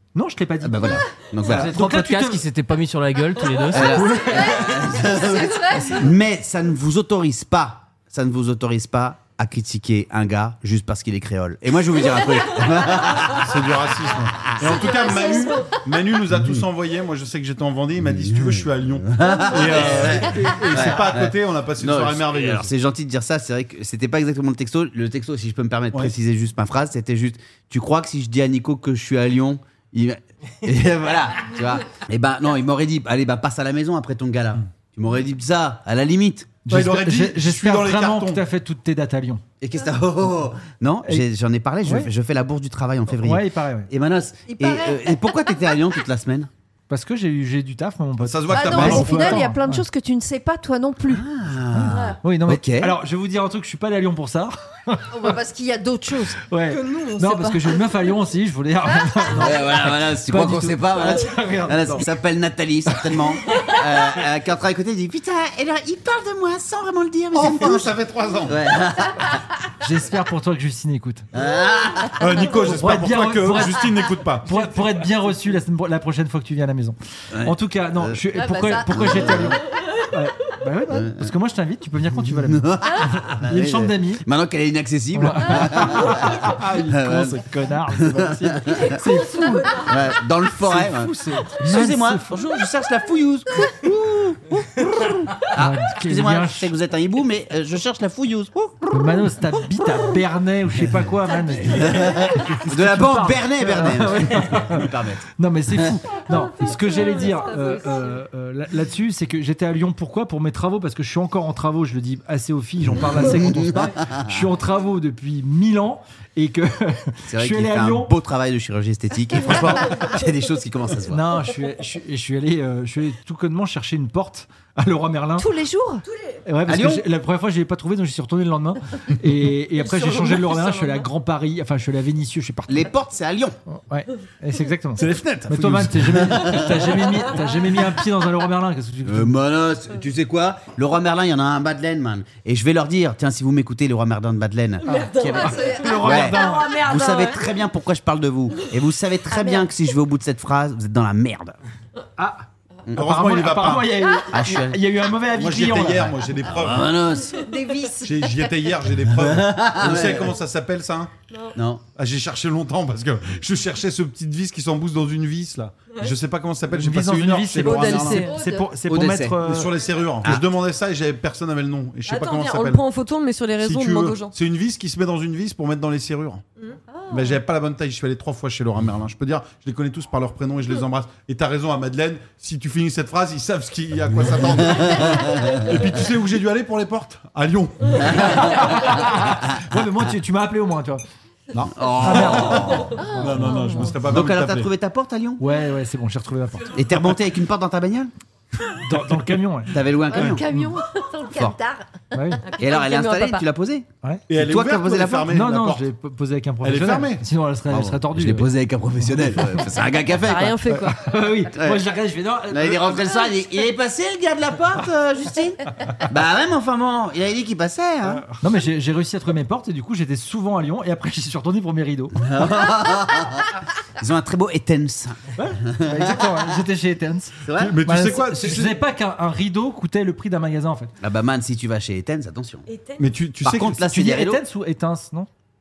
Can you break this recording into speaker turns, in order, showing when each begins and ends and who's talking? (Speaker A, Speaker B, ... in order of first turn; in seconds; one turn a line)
Speaker A: 0.1-2.5
Speaker B: 0.6-1.8
Speaker C: 1.4-4.8
Speaker B: 3.7-13.6
Speaker A: 3.9-4.5
Speaker D: 4.6-5.9
Speaker E: 13.3-22.7
Speaker B: 14.4-15.0
Speaker D: 14.8-15.8
Speaker F: 15.0-15.3
Speaker B: 16.3-16.6
Speaker B: 18.0-36.6
Speaker A: 20.0-20.9
Speaker A: 36.7-39.4
Speaker E: 36.7-38.4
Speaker B: 39.6-46.5
Speaker A: 41.9-42.1
Speaker A: 43.1-43.9
Speaker D: 44.5-45.4
Speaker A: 46.9-49.9
Speaker E: 48.2-49.4
Speaker D: 48.5-51.2
Speaker B: 51.1-53.0
Speaker A: 51.7-55.3
Speaker D: 51.9-52.2
Speaker D: 55.1-56.4
Speaker A: 56.5-62.1
Speaker F: 56.7-57.9
Speaker B: 59.3-68.0
Speaker E: 67.3-68.6
Speaker B: 68.5-69.3
Speaker A: 69.8-71.3
Speaker B: 71.3-72.6
Speaker E: 72.2-74.5
Speaker A: 72.7-73.9
Speaker A: 74.4-84.2
Speaker B: 77.3-78.2
Speaker D: 78.3-79.5
Speaker B: 78.9-79.6
Speaker B: 80.9-81.3
Speaker B: 82.1-89.0
Speaker A: 85.1-89.9
Speaker F: 89.4-89.8
Speaker B: 89.8-99.3
Speaker A: 90.5-92.4
Speaker A: 95.5-96.7
Speaker A: 98.9-118.1
Speaker B: 101.6-105.9
Speaker F: 107.3-108.0
Speaker B: 112.9-114.4
Speaker B: 117.3-121.2
Speaker A: 121.1-125.5
Speaker D: 125.4-126.0
Speaker A: 126.5-132.9
Speaker B: 126.7-127.0
Speaker F: 129.8-131.1
Speaker B: 132.7-133.6
Speaker A: 133.7-139.4
Speaker E: 135.0-136.1
Speaker B: 135.0-137.1
Speaker B: 139.1-151.6
Speaker A: 144.9-146.7
Speaker F: 144.9-147.4
Speaker D: 145.3-146.3
Speaker D: 149.3-149.7
Speaker A: 152.2-156.2
Speaker E: 152.9-154.0
Speaker B: 154.3-154.8
Speaker E: 155.3-157.0
Speaker B: 156.5-157.5
Speaker D: 157.3-158.6
Speaker E: 158.0-161.1
Speaker B: 159.1-160.4
Speaker B: 161.5-161.8
Speaker E: 161.9-168.2
Speaker A: 166.7-169.7
Speaker F: 167.6-168.3
Speaker D: 168.3-168.7
Speaker B: 168.9-169.4
Speaker E: 169.4-172.8
Speaker F: 172.1-174.3
Speaker E: 173.6-176.4
Speaker D: 176.9-177.3
Speaker E: 177.1-188.5
Speaker B: 184.7-185.7
Speaker B: 188.0-188.6
Speaker A: 188.3-191.0
Speaker E: 191.5-194.7
Speaker B: 191.7-193.1
Speaker A: 192.0-193.9
Speaker D: 192.9-193.9
Speaker B: 194.1-195.4
Speaker A: 195.4-196.7
Speaker B: 196.7-198.1
Speaker A: 198.8-199.8
Speaker B: 199.7-200.5
Speaker D: 200.1-201.9
Speaker B: 201.3-201.6
Speaker A: 202.1-202.4
Speaker F: 202.4-203.4
Speaker B: 202.6-205.5
Speaker E: 204.3-205.9
Speaker A: 205.3-208.5
Speaker E: 206.6-207.2
Speaker B: 207.7-210.6
Speaker F: 210.2-211.0
Speaker A: 210.9-213.1
Speaker B: 211.5-211.8
Speaker B: 212.5-218.2
Speaker A: 218.4-222.2
Speaker B: 222.2-226.6
Speaker A: 225.4-230.9
Speaker B: 227.4-227.8
Speaker E: 227.6-228.8
Speaker B: 231.0-232.7
Speaker F: 232.7-233.2
Speaker E: 233.0-233.8
Speaker B: 233.4-234.4
Speaker A: 233.7-235.3